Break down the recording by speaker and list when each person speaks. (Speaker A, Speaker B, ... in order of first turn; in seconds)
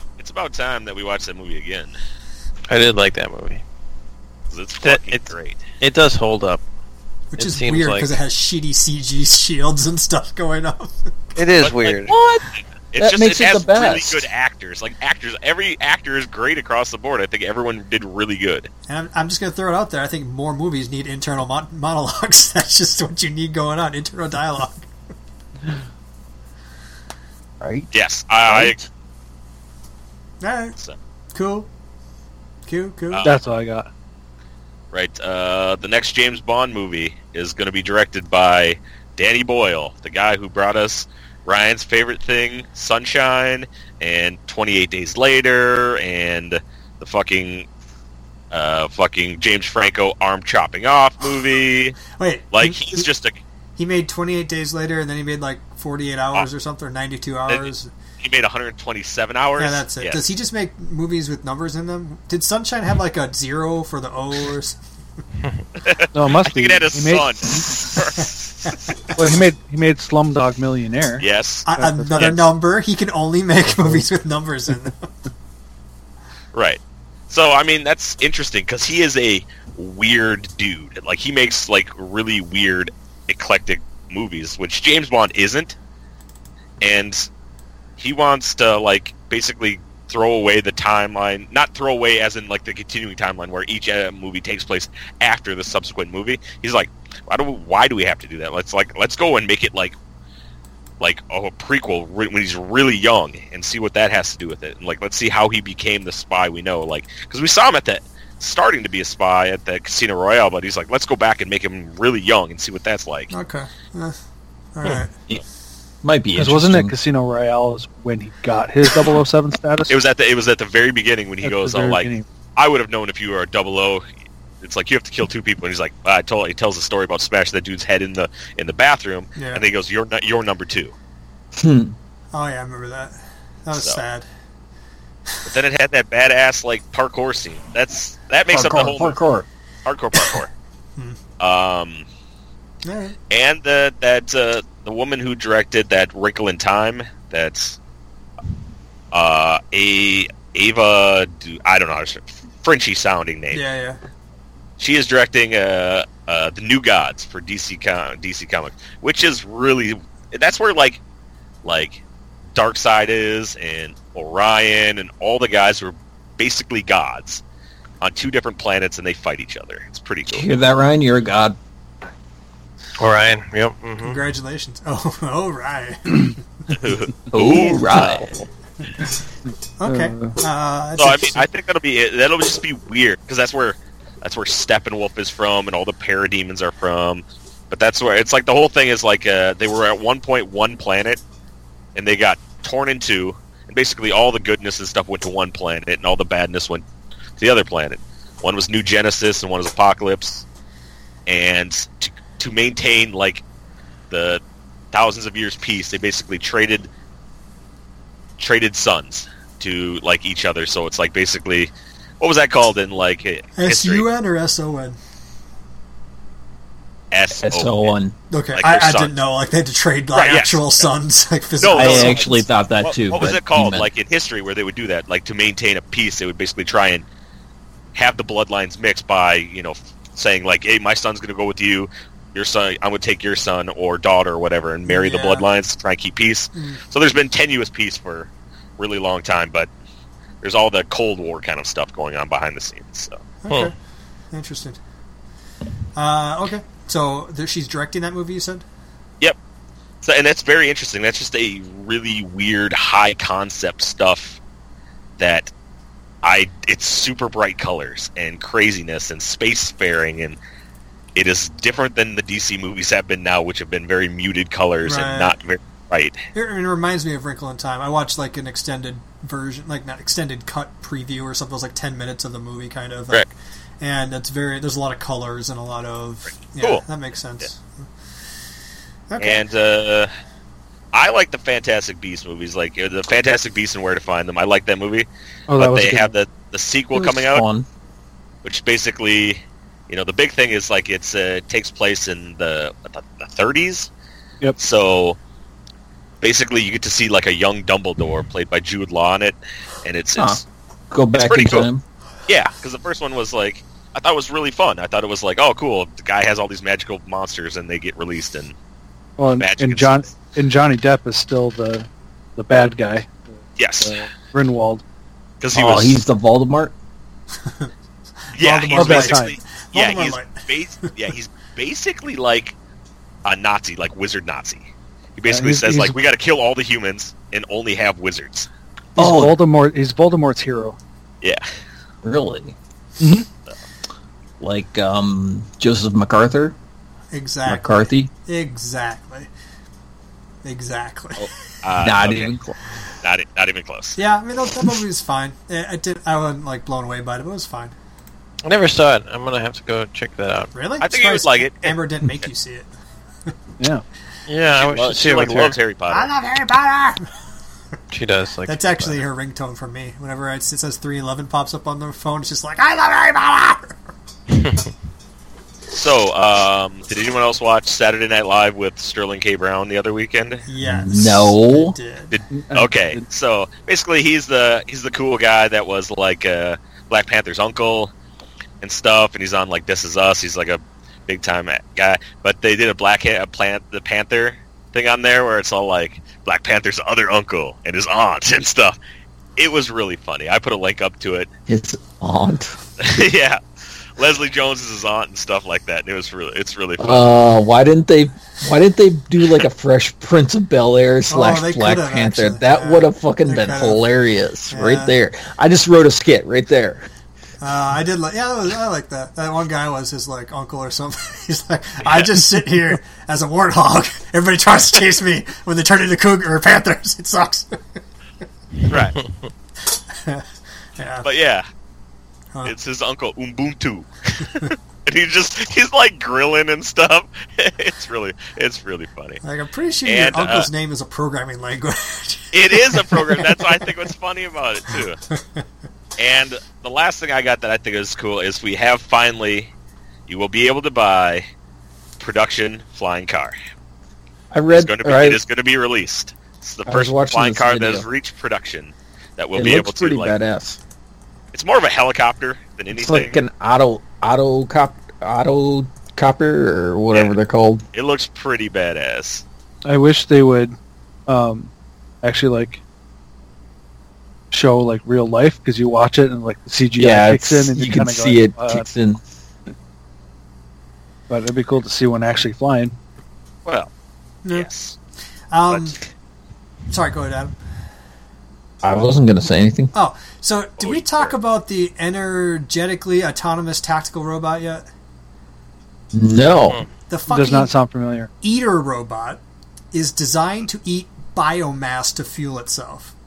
Speaker A: 0.2-1.9, 4.5-5.6, 11.6-12.1, 12.9-18.7, 27.9-28.8, 33.1-33.4, 34.9-47.7, 48.5-52.0, 52.5-53.4, 57.5-60.2, 65.8-68.7, 71.2-72.4, 76.5-85.8, 86.8-87.3, 88.0-99.9, 101.0-113.3, 119.9-124.0, 124.6-130.9, 133.7-134.0, 135.4-139.2, 139.8-140.5, 141.4-142.1, 143.3-147.8, 149.1-153.6, 154.8-161.0, 161.6-162.0, 162.5-167.4, 168.0-170.5, 176.7-178.3, 181.0-191.2, 191.9-196.8, 197.4-200.4, 201.3-203.4, 204.1-206.9, 208.4-214.1, 217.1-217.9, 218.5-219.2, 220.1-220.9, 221.6-227.0, 227.9-239.7, 240.4-243.2, 250.0-254.4, 255.2-255.5, 256.2-260.4, 261.1-266.2, 276.5-276.8, 279.2-280.1, 280.9-287.4, 288.4-293.9, 294.6-295.2, 296.2-300.4, 301.2-301.7, 302.3-308.5, 309.4-309.9, 313.6-314.0, 315.4-316.0, 318.3-322.6, 323.2-328.5, 341.2-342.3, 343.0-344.0, 350.8-352.2, 354.5-356.1, 365.7-370.4, 372.1-377.9, 378.6-388.8, 389.4-391.3, 392.8-393.4, 394.0-397.1, 411.8-412.1, 418.7-419.0, 421.0-421.4, 422.4-429.2, 429.8-430.5, 432.3-435.0, 436.0-439.5, 440.1-441.2, 442.0-443.3, 444.5-450.1, 451.3-453.2, 457.7-459.2, 474.3-474.8, 480.6-481.1
Speaker B: 2.7-3.6, 4.8-6.6, 7.4-8.1, 11.3-12.1, 173.0-174.2, 348.4-350.5, 354.3-355.6, 357.9-359.0, 364.3-364.7
Speaker C: 7.3-11.1, 18.9-24.9, 30.4-30.8, 31.3-31.7, 32.7-33.3, 52.1-53.0, 53.8-57.9, 59.6-64.8, 71.6-75.1, 113.3-114.2, 114.7-115.1, 129.3-129.7, 132.3-134.2, 142.8-143.2, 153.5-154.0, 174.0-176.4, 179.8-181.4, 213.6-215.0, 218.3-222.3, 234.9-235.4, 243.4-243.7, 244.3-244.8, 245.9-248.6, 264.8-265.3, 266.3-273.3, 273.8-277.8, 279.1-279.4, 318.3-320.4, 337.1-339.3, 340.4-341.3, 343.9-347.7, 350.5-352.7, 355.9-357.1, 358.4-363.8, 370.5-372.1, 401.1-403.9, 404.5-404.9, 407.4-417.6, 420.8-421.1, 429.2-433.6, 475.3-475.8, 476.7-477.3, 479.7-484.6, 486.9-487.5, 488.2-489.2, 489.7-492.9
Speaker D: 12.1-12.5, 13.0-14.2, 27.6-27.9, 28.5-28.8, 116.0-116.9, 131.5-131.9, 138.5-139.5, 170.3-171.6, 177.3-178.4, 217.4-218.1, 221.7-223.9, 286.9-287.6, 300.1-301.8, 315.5-316.7, 329.0-329.4, 332.0-332.6, 334.4-336.5, 337.4-338.1, 341.8-342.6, 370.6-371.8, 391.5-392.5, 396.8-406.8, 444.3-445.2, 446.6-447.9, 449.3-450.6, 452.7-457.6, 466.8-469.0, 478.6-479.7, 485.9-486.6
Speaker E: 33.2-33.9, 66.1-67.8, 69.2-72.4, 116.3-120.0, 121.4-122.2, 179.5-180.4, 285.5-286.1, 309.2-313.3, 313.8-314.8, 318.7-319.4, 325.3-326.0, 328.9-330.8, 333.0-333.2, 372.3-373.1, 459.6-460.5, 461.1-461.5, 462.0-462.6, 464.3-468.6, 471.1-472.7, 487.1-488.1